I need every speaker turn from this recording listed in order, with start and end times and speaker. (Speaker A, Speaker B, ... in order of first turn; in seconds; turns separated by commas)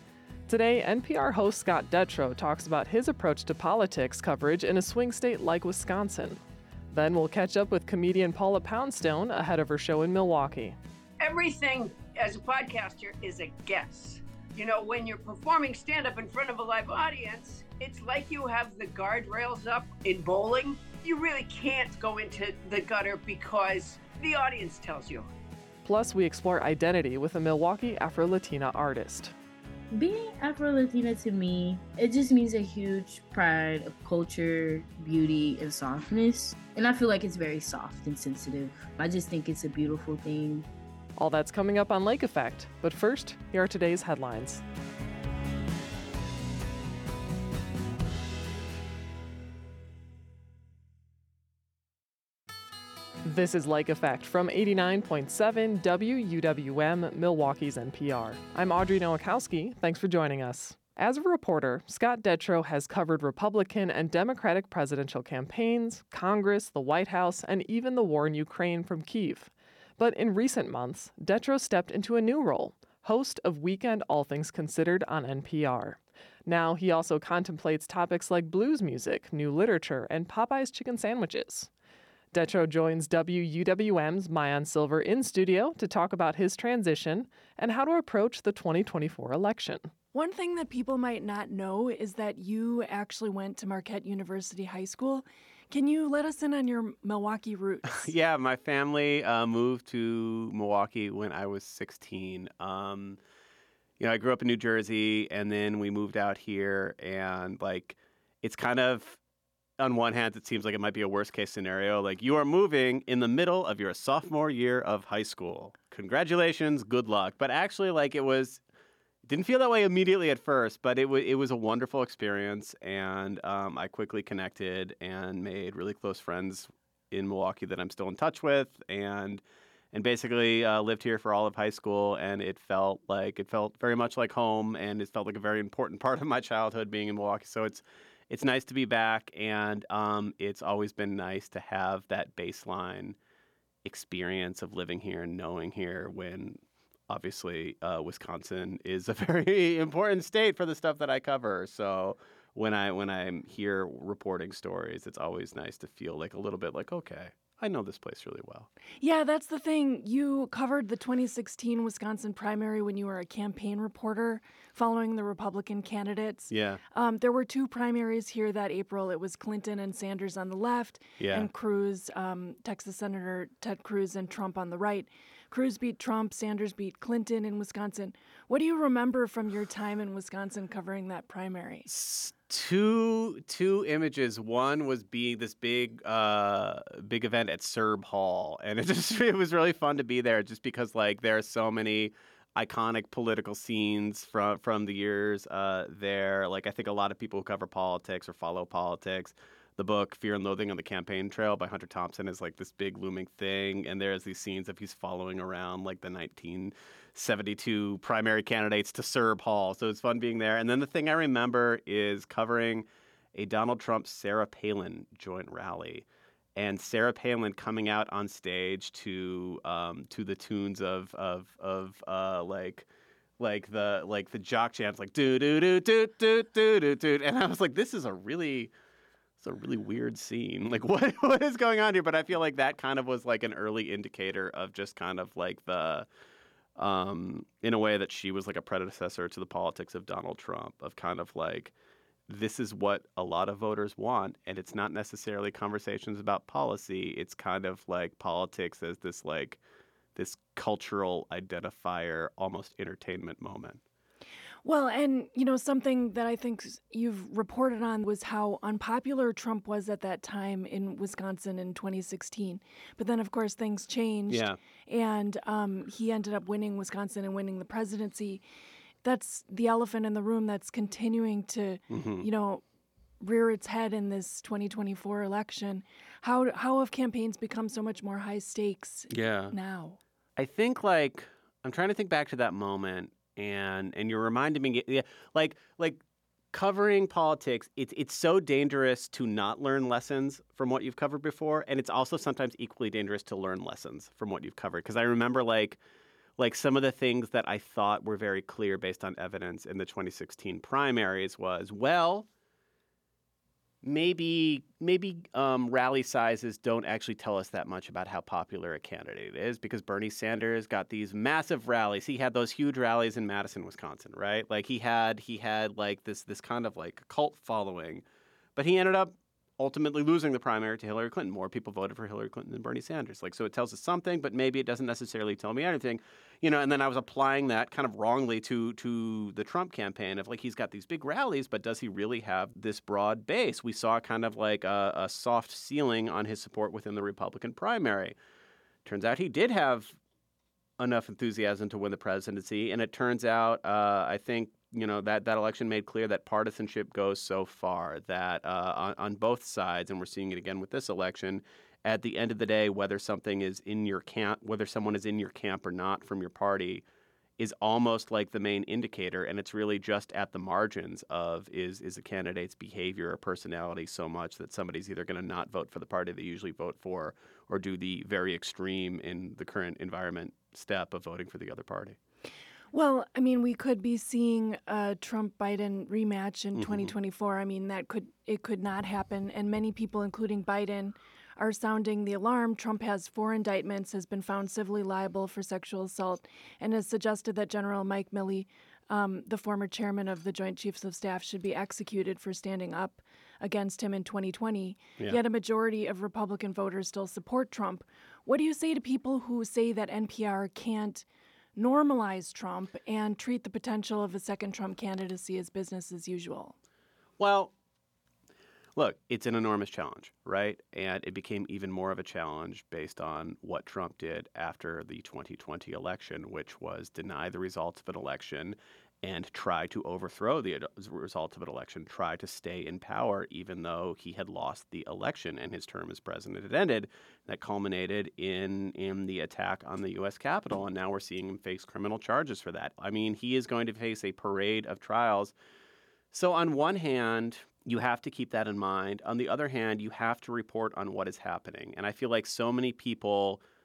Speaker A: 0.5-10.8, Speaker B: 11.2-25.3, Speaker A: 25.8-29.3, Speaker C: 29.9-40.7, Speaker A: 41.2-44.6, Speaker A: 53.2-81.7, Speaker A: 82.3-89.9, Speaker D: 90.1-98.1, Speaker E: 97.9-103.2, Speaker E: 104.0-109.2, Speaker E: 109.8-118.6, Speaker E: 119.2-143.2, Speaker E: 143.8-158.7, Speaker D: 159.0-181.8, Speaker E: 166.5-166.8, Speaker E: 171.2-171.5, Speaker E: 181.8-222.9, Speaker E: 223.4-228.7, Speaker E: 229.4-236.1, Speaker E: 236.8-241.7, Speaker E: 242.3-249.6, Speaker E: 250.1-253.8, Speaker D: 254.6-268.4, Speaker E: 264.3-264.6, Speaker D: 269.0-272.6, Speaker E: 271.9-272.3, Speaker D: 273.2-280.0, Speaker E: 279.1-279.5, Speaker E: 280.4-286.0, Speaker E: 286.5-295.8, Speaker E: 296.4-302.3, Speaker E: 303.8-318.0, Speaker E: 318.6-338.1, Speaker E: 338.8-340.0, Speaker E: 340.8-356.8, Speaker E: 357.4-372.0, Speaker D: 372.7-406.6, Speaker E: 376.5-376.9, Speaker E: 407.2-407.5, Speaker E: 408.8-435.3, Speaker E: 436.1-443.4